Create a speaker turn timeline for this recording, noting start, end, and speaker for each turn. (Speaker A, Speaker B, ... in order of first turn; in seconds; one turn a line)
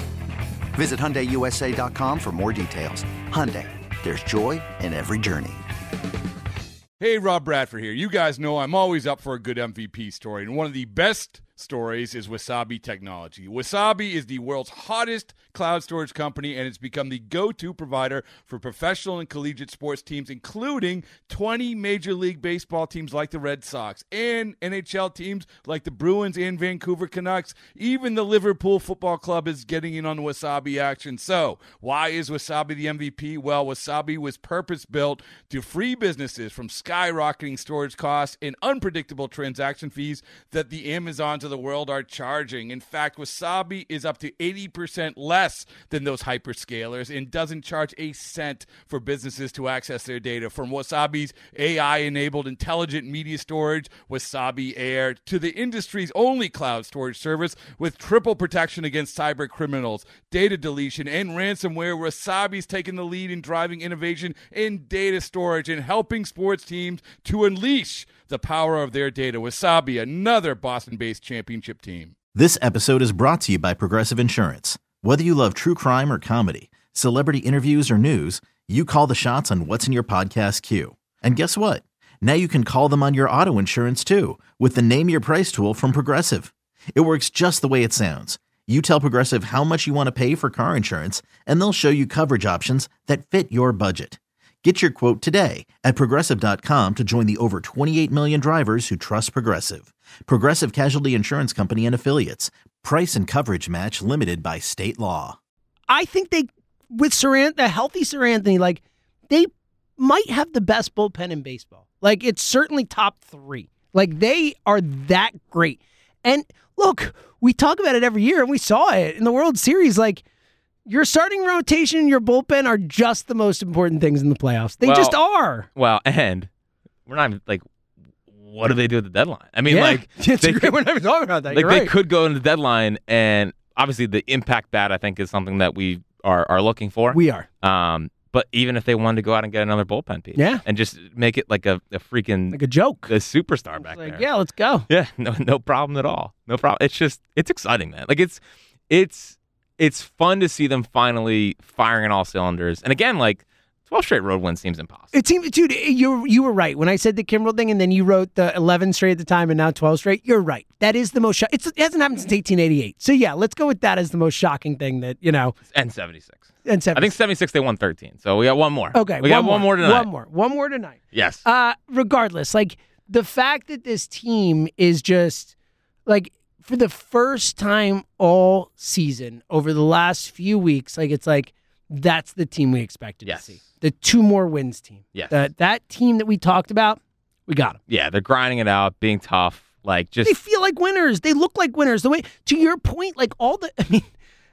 Speaker A: 0.7-5.6
Speaker B: 7.0-72.1
Speaker C: 72.3-105.4
Speaker D: 105.9-120.2
Speaker D: 120.9-125.7
Speaker E: 124.8-125.2
Speaker E: 125.8-126.5
Speaker E: 127.1-127.6
Speaker E: 128.4-130.8
Speaker D: 129.7-131.9
Speaker E: 131.5-144.2
Speaker D: 137.1-137.5
Speaker D: 140.3-140.6
Speaker D: 142.5-143.1
Speaker D: 143.8-144.9
Speaker E: 144.9-155.1
Speaker D: 155.1-165.6
Speaker E: 165.7-170.1
Speaker D: 166.7-167.2
Speaker D: 168.9-175.5
Speaker E: 171.1-171.4
Speaker D: 176.1-187.8
Speaker E: 183.2-183.6
Speaker E: 185.1-185.4
Speaker E: 187.9-190.3
Speaker D: 190.2-194.1